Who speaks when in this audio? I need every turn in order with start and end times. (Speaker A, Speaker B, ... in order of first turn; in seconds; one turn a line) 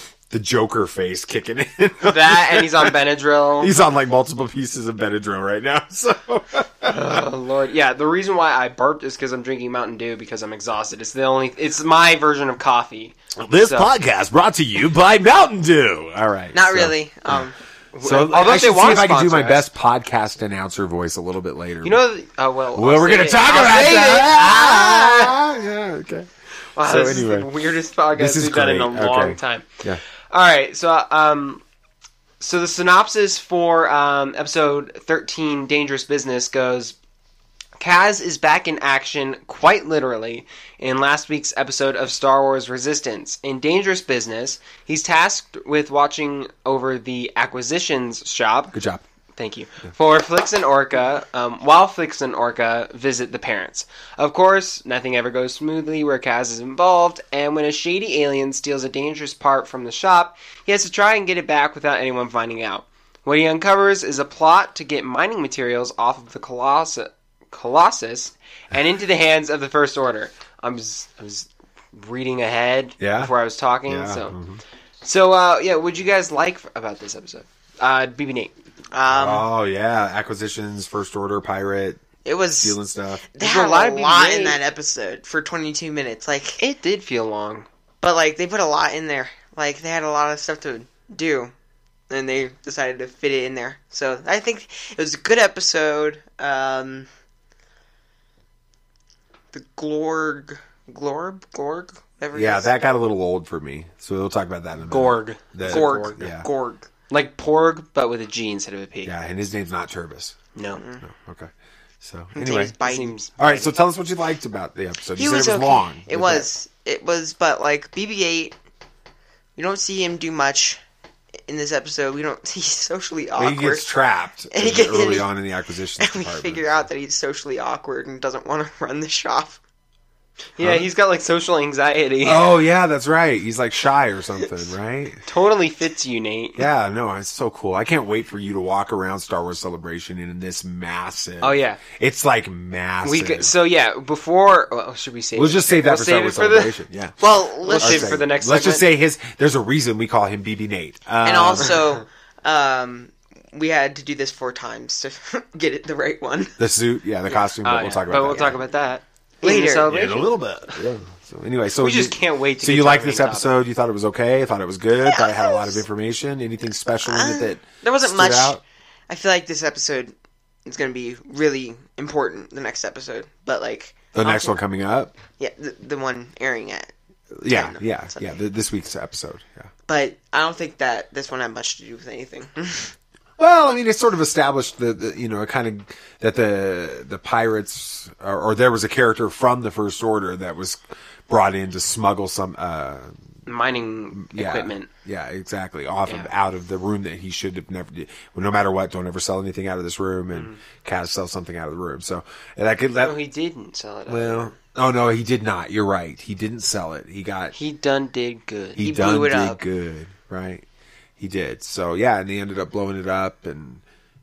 Speaker A: 0.3-2.9
Speaker B: 2.0-3.7
Speaker A: 3.6-7.0
Speaker B: 6.8-13.9
Speaker A: 13.3-17.4
Speaker C: 16.5-17.6
Speaker B: 17.9-19.6
Speaker A: 18.0-22.0
Speaker B: 21.8-25.4
Speaker A: 22.7-26.3
Speaker B: 26.8-31.6
Speaker A: 26.8-27.5
Speaker A: 28.1-30.0
Speaker B: 32.4-37.0
Speaker B: 37.8-48.7
Speaker A: 48.7-49.0
Speaker B: 49.4-74.4
Speaker A: 73.0-73.3
Speaker A: 73.8-74.6
Speaker B: 75.0-78.5
Speaker C: 78.9-79.5
Speaker A: 79.1-82.0
Speaker C: 82.2-82.8
Speaker A: 82.6-83.3
Speaker C: 83.3-86.6
Speaker B: 83.4-84.6
Speaker B: 86.6-87.7
Speaker C: 88.0-91.5
Speaker C: 92.1-97.1
Speaker C: 99.5-102.7
Speaker A: 102.3-106.5
Speaker B: 104.9-106.0
Speaker C: 105.6-106.9
Speaker B: 107.1-109.1
Speaker A: 109.0-110.4
Speaker B: 110.5-110.8
Speaker C: 110.8-111.0
Speaker A: 111.0-112.8
Speaker C: 112.3-113.1
Speaker B: 112.8-113.7
Speaker A: 113.4-116.5
Speaker C: 115.2-118.5
Speaker C: 119.6-120.8
Speaker C: 121.5-123.9
Speaker A: 123.4-126.6
Speaker C: 124.5-125.3
Speaker C: 126.0-129.6
Speaker B: 130.6-132.5
Speaker A: 130.6-130.9
Speaker A: 132.2-135.2
Speaker B: 135.2-136.7
Speaker A: 136.6-143.5
Speaker B: 141.4-141.8
Speaker B: 143.0-146.8
Speaker A: 145.3-151.8
Speaker C: 147.2-148.3
Speaker B: 147.6-148.9
Speaker C: 151.2-156.6
Speaker A: 156.6-158.6
Speaker B: 157.4-160.8
Speaker C: 159.4-159.9
Speaker A: 159.8-168.6
Speaker B: 161.8-163.5
Speaker C: 165.0-165.8
Speaker C: 167.1-170.1
Speaker C: 170.7-174.6
Speaker A: 174.1-175.1
Speaker C: 175.4-176.9
Speaker A: 177.3-179.7
Speaker C: 177.4-178.4
Speaker C: 179.9-182.9
Speaker A: 183.4-193.2
Speaker B: 193.5-194.9
Speaker A: 194.1-203.2
Speaker B: 196.1-196.3
Speaker B: 200.3-200.6
Speaker B: 203.0-204.5
Speaker A: 204.1-207.5
Speaker B: 207.5-208.8
Speaker A: 208.8-210.6
Speaker C: 208.8-209.6
Speaker A: 211.2-213.8